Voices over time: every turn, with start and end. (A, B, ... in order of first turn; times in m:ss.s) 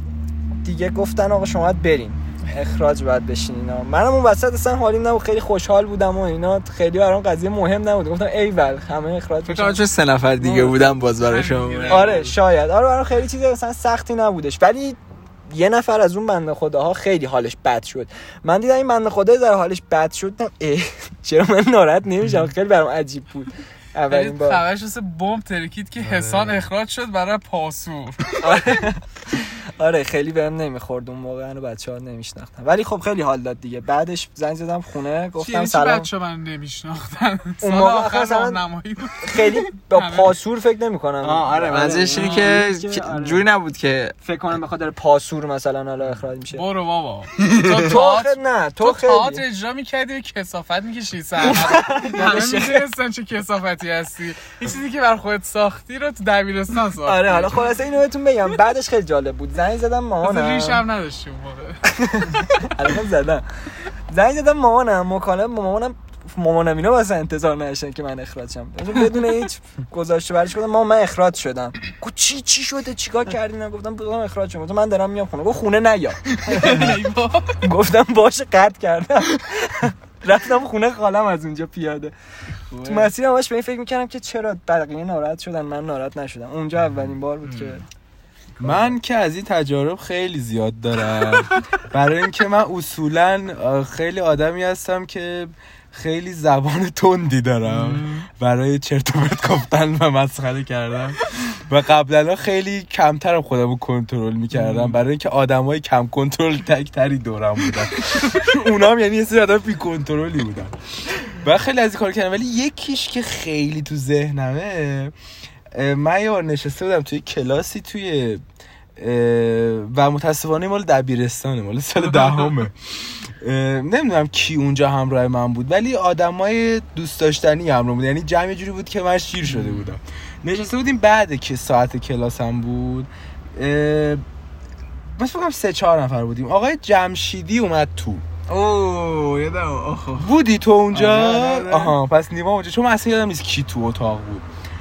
0:00.6-0:09.8 A
0:09.4-0:12.2 B
0:10.4-0:10.9 A
0:11.2-0:12.4 C
0:11.9-0:24.6 A
0:24.1-0:28.4 C
0:26.0-0:26.7 D
0:28.4-0:36.1 A
0:35.4-0:40.4 C
0:37.6-0:38.6 A
0:39.2-0:43.5 A
0:41.2-0:44.1 B
0:42.1-0:42.5 C
0:44.2-0:46.6 A
0:46.5-0:57.6 C
0:47.7-0:49.4 A
0:51.4-0:52.8 A
0:57.0-1:00.8 A
1:00.2-1:01.8 C
1:01.9-1:03.5 A
1:04.1-1:17.0 A
1:16.5-1:17.6 C
1:17.6-1:22.1 A
1:22.7-1:23.1 B
1:22.8-1:27.8 A
1:27.4-1:27.8 B
1:28.6-1:28.9 B
1:28.6-1:55.1 D
1:37.6-1:38.3 B
1:44.5-1:45.0 B
1:55.7-1:58.4 D
1:59.0-2:14.2 D
2:02.1-2:02.5 C
2:09.5-2:09.9 B
2:15.2-2:18.2 D
2:18.5-2:20.3 B
2:20.2-2:24.5 D
2:20.9-2:22.0 B